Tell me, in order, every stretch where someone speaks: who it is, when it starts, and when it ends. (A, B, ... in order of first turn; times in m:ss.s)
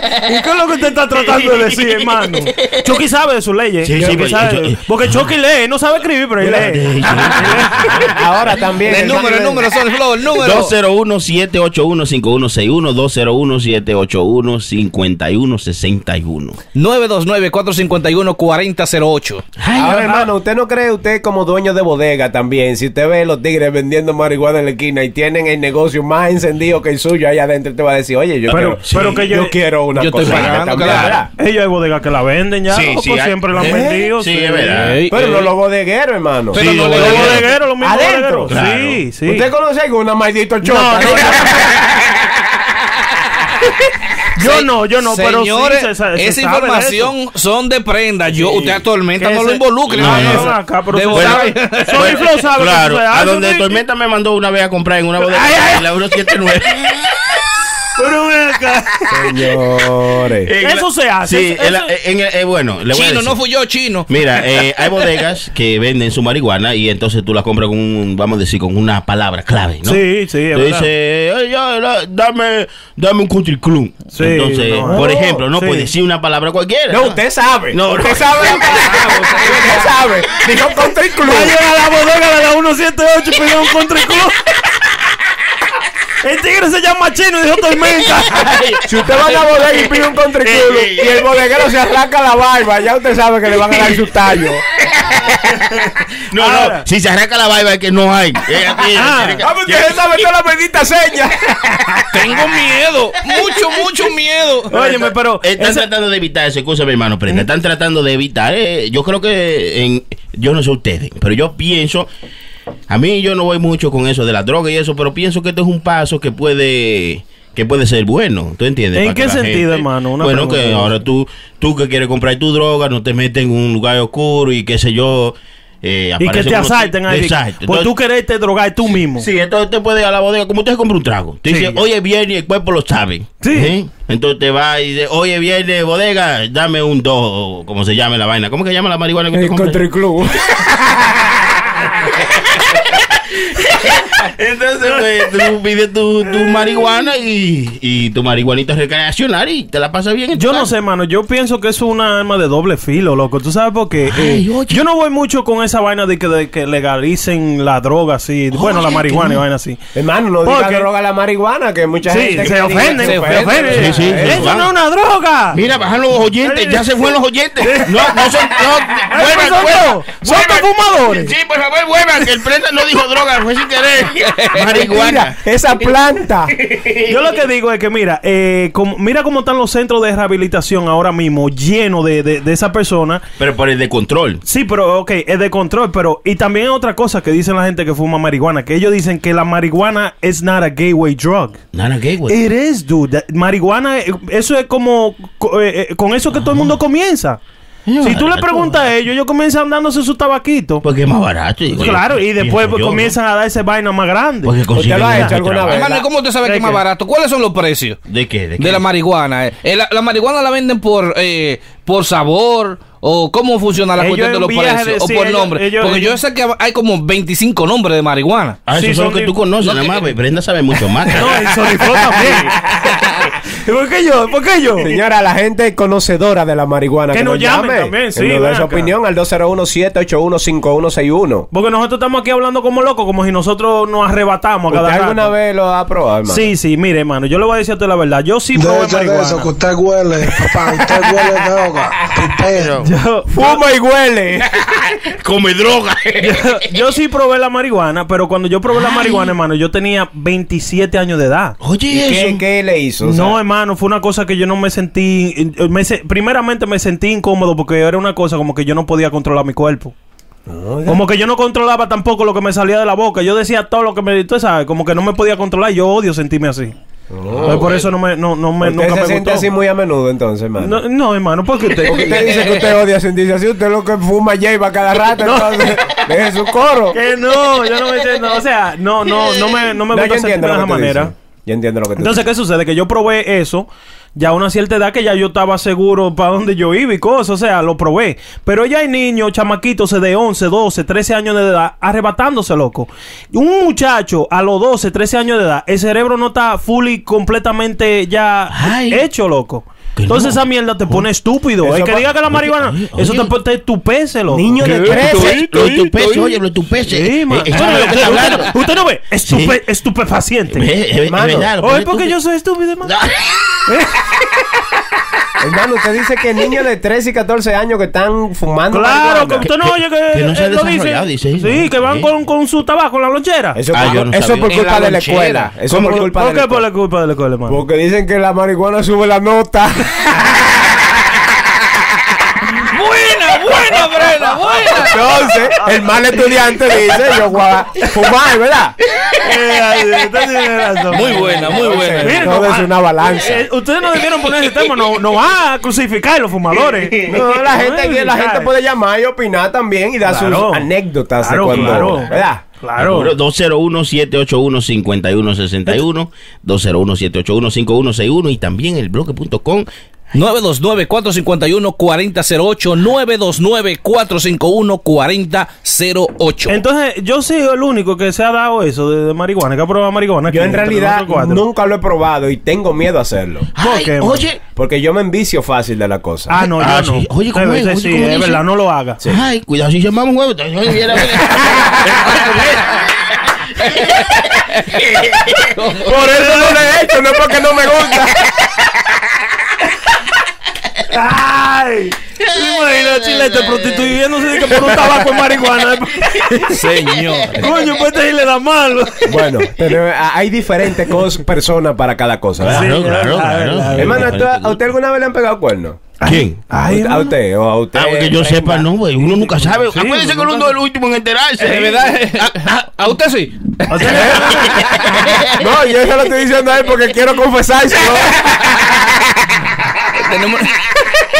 0:00.2-0:07.9 A
0:03.8-0:05.3 B
0:06.4-0:08.1 B
0:08.1-0:09.7 C
0:08.9-0:10.7 D
0:10.3-0:16.6 B
0:16.7-0:19.4 D
0:19.6-0:20.2 B
0:19.8-0:31.3 C
0:28.5-0:29.2 B
0:28.5-0:29.6 A
0:30.0-0:31.2 D
0:30.2-0:30.5 B
0:30.8-0:34.9 A
0:32.7-0:35.0 B
0:33.6-0:34.1 C
0:34.7-0:35.5 D
0:35.1-0:38.6 C
0:36.5-0:37.5 D
0:36.6-0:37.4 B
0:36.8-0:39.5 A
0:38.5-0:39.0 B
0:39.2-0:41.6 C
0:40.7-0:41.5 A
0:44.4-0:47.1 A
0:44.4-0:52.2 D
0:49.2-0:53.8 A
0:49.9-0:50.6 B
0:51.1-0:57.1 B
0:55.3-0:55.8 D
0:58.0-0:59.0 A
0:59.1-1:00.5 C
1:00.5-1:03.4 B
1:00.6-1:01.9 A
1:02.9-1:04.9 D
1:04.1-1:17.2 B
1:09.8-1:10.9 A
1:14.1-1:15.9 A
1:14.8-1:15.4 C
1:16.9-1:21.6 C
1:17.7-1:19.8 B
1:21.2-1:24.4 A
1:26.2-1:28.6 A
1:28.3-1:28.8 B
1:28.9-1:34.6 C
1:30.6-1:31.2 B
1:34.9-1:35.4 B
1:36.3-1:40.1 B
1:36.4-1:36.8 A
1:39.0-1:39.4 A
1:39.4-1:42.1 C
1:42.1-1:44.7 D
1:44.7-1:45.9 A
1:44.7-1:52.1 B
1:52.9-2:07.9 B
1:59.0-2:00.9 A
2:06.2-2:09.3 A
2:09.2-2:19.8 B
2:11.5-2:11.8 A
2:13.4-2:13.7 A
2:19.3-2:21.0 C
2:22.1-2:30.7 B
2:30.4-2:39.8 A
2:34.1-2:34.8 B
2:38.5-2:39.4 B
2:39.9-2:44.5 C
2:40.4-2:40.9 A
2:42.1-2:45.6 A
2:43.0-2:43.9 D
2:43.7-2:44.7 B
2:45.5-2:55.4 B
2:46.4-2:48.3 A
2:49.0-2:51.3 A
2:54.3-2:54.6 D
2:54.6-2:56.5 C
2:56.6-2:57.1 B
2:57.1-3:03.2 A
3:03.4-3:04.4 B
3:04.4-3:11.6 A
3:11.7-3:12.4 B
3:12.3-3:17.4 A
3:17.9-3:18.8 B
3:18.0-3:20.8 A
3:20.8-3:23.2 B
3:21.8-3:24.5 A
3:24.4-3:25.9 B
3:24.7-3:26.1 C
3:25.7-3:28.0 D
3:26.4-3:26.8 A
3:28.1-3:28.8 B
3:28.6-3:38.6 D
3:34.0-3:36.2 A
3:38.7-3:41.6 B
3:38.7-3:39.3 A
3:39.6-3:40.1 D
3:41.1-3:42.6 A
3:43.5-3:44.9 A
3:44.8-3:51.5 C
3:47.1-3:48.9 A
3:51.5-3:55.3 A
3:54.7-3:56.5 C
3:56.3-3:59.5 A
3:58.5-4:02.8 E
4:02.5-4:02.9 B
4:02.8-4:03.3 A
4:03.3-4:04.5 C
4:04.5-4:06.6 B
4:06.2-4:11.6 A
4:08.8-4:09.3 B
4:11.6-4:12.4 B
4:11.9-4:13.4 C
4:13.0-4:19.9 A
4:20.5-4:21.0 C
4:20.9-4:26.8 A
4:27.1-4:27.7 C
4:27.3-4:27.9 B
4:27.5-4:29.5 A
4:28.6-4:30.8 C
4:30.6-4:32.6 A
4:31.8-4:37.0 C
4:35.2-4:35.8 A
4:36.9-4:41.1 A
4:39.9-4:42.3 C
4:42.0-5:06.2 A
4:58.5-4:59.0 B
5:00.0-5:01.1 B
5:01.6-5:02.1 C
5:02.3-5:03.3 B
5:04.3-5:05.4 C
5:04.6-5:08.5 B
5:06.9-5:10.7 A
5:09.3-5:09.6 B
5:10.5-5:12.2 B
5:11.1-5:11.5 C
5:11.6-5:12.9 A
5:12.8-5:13.6 B
5:13.7-5:14.1 A
5:15.4-5:19.5 C
5:18.7-5:23.6 A
5:20.1-5:22.1 B
5:23.6-5:26.7 C
5:23.7-5:24.6 B
5:24.5-5:25.5 D
5:25.7-5:26.0 B
5:25.8-5:27.6 A
5:27.5-5:30.8 C
5:32.6-5:35.0 D
5:33.6-5:35.8 A
5:34.7-5:38.8 C
5:39.2-5:48.5 A
5:40.9-5:42.3 D
5:41.4-5:43.5 C
5:46.8-5:47.2 B
5:47.1-5:52.4 C
5:50.0-5:50.7 A
5:51.2-5:53.1 A
5:51.5-5:51.9 B
5:52.8-5:59.7 B
6:00.1-6:06.6 D
6:06.5-6:11.4 A
6:10.3-6:13.5 C
6:13.6-6:14.4 B
6:13.6-6:14.3 A
6:14.6-6:16.5 C
6:16.3-6:19.0 A
6:16.6-6:18.4 B
6:19.1-6:22.8 B
6:21.5-6:22.0 C
6:25.5-6:25.9 D
6:25.9-6:28.3 C
6:26.0-6:26.6 A
6:30.9-6:36.6 A
6:32.7-6:33.9 B
6:36.5-6:37.4 D
6:37.3-6:39.5 A
6:39.1-6:42.7 C
6:42.4-6:44.6 B
6:42.4-6:44.1 A
6:43.8-6:45.8 C
6:46.0-6:47.1 A
6:46.0-6:46.4 B
6:46.6-6:48.7 C
6:47.7-6:52.7 B
6:49.1-6:50.5 A
6:51.4-6:54.1 D
6:53.7-6:54.6 A
6:53.9-6:54.3 C
6:55.0-6:55.3 B
6:55.3-6:58.4 C
6:59.9-7:00.5 D